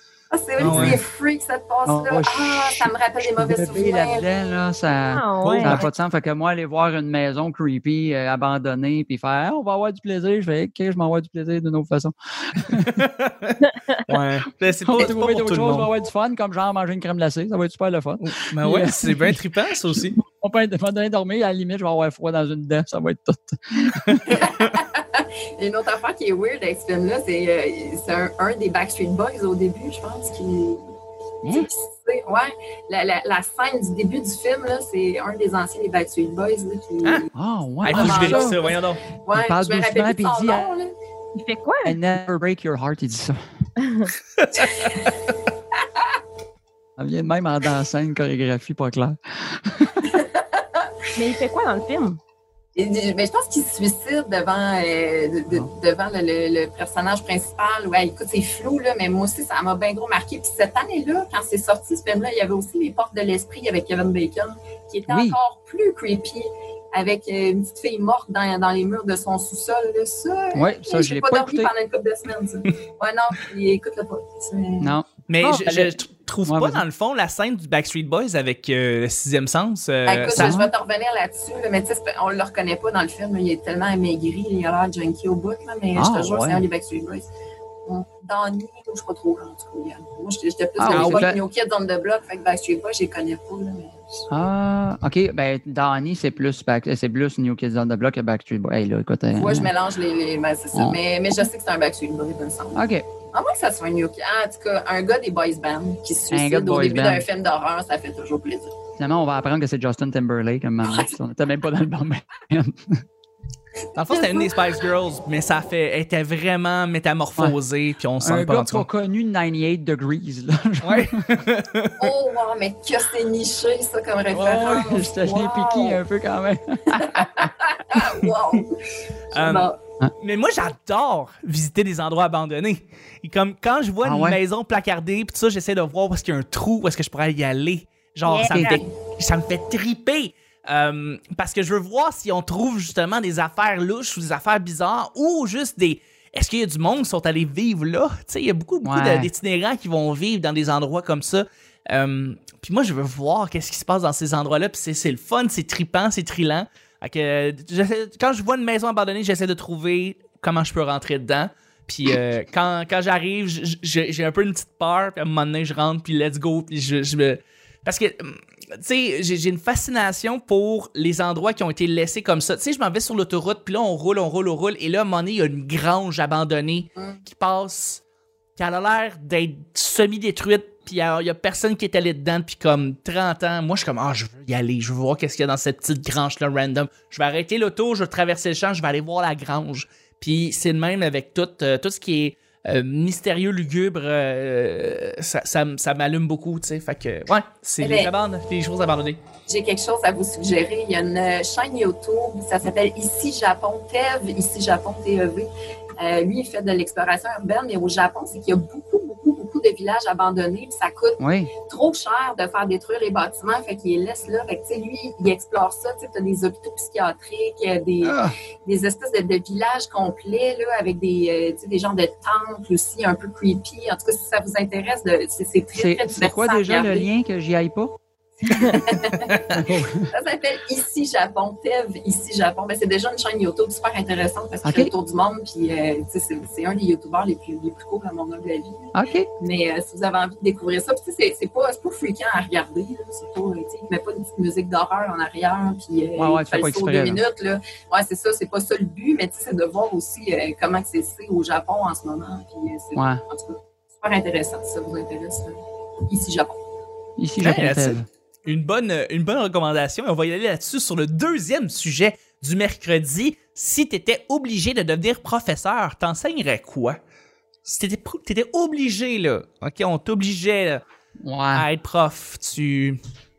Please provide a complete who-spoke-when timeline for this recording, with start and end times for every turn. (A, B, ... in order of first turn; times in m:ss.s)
0:00.3-0:04.2 A
0:00.6-0:01.0 B
0:00.6-0:01.0 C
0:01.8-0:13.0 C
0:05.1-0:05.8 D
0:05.4-0:05.8 B
0:12.8-0:15.9 B
0:13.7-0:14.0 D
0:14.8-0:24.5 C
0:18.2-0:20.2 B
0:24.2-0:30.9 A
0:31.4-0:37.3 A
0:37.3-0:38.6 C
0:37.8-0:39.0 B
0:37.9-0:40.9 A
0:39.3-0:40.7 C
0:41.4-0:42.0 D
0:41.8-0:43.4 C
0:43.8-0:44.1 D
0:44.4-0:45.1 B
0:47.0-0:50.2 C
0:50.0-0:50.9 A
0:51.1-0:52.2 D
0:52.7-1:15.0 A
1:05.1-1:05.4 C
1:10.5-1:11.7 C
1:14.8-1:16.8 C
1:15.3-1:20.6 B
1:20.1-1:27.3 A
1:20.3-1:20.7 C
1:25.9-1:26.6 C
1:27.8-1:34.3 A
1:30.8-1:31.4 C
1:30.9-1:31.3 B
1:34.3-1:39.7 C
1:39.3-1:48.8 A
1:42.7-1:43.0 C
1:46.3-1:47.3 C
1:49.0-1:53.0 C
1:50.9-1:51.1 A
1:53.9-1:58.8 B
1:54.0-1:54.5 A
1:58.2-2:01.4 C
2:00.8-2:02.1 B
2:02.0-2:06.0 A
2:04.3-2:08.1 C
2:06.9-2:08.8 A
2:09.3-2:09.8 A
2:09.3-2:58.0 B
2:14.0-2:14.4 C
2:18.3-2:18.8 D
2:18.5-2:18.8 C
2:28.8-2:29.3 C
2:58.6-3:19.2 B
3:17.8-3:18.1 A
3:19.5-3:47.1 A
3:31.2-3:31.5 C
3:38.0-3:38.3 B
3:45.7-3:47.9 C
3:48.5-3:48.8 D
3:48.5-3:49.4 A
3:49.5-3:50.1 C
3:50.1-4:16.6 A
3:54.6-3:54.9 C
3:58.9-3:59.3 C
4:06.2-4:07.2 C
4:13.0-4:13.2 C
4:17.2-4:18.1 C
4:17.4-4:27.0 B
4:27.6-4:30.8 B
4:31.2-4:31.6 C
4:31.5-4:33.0 B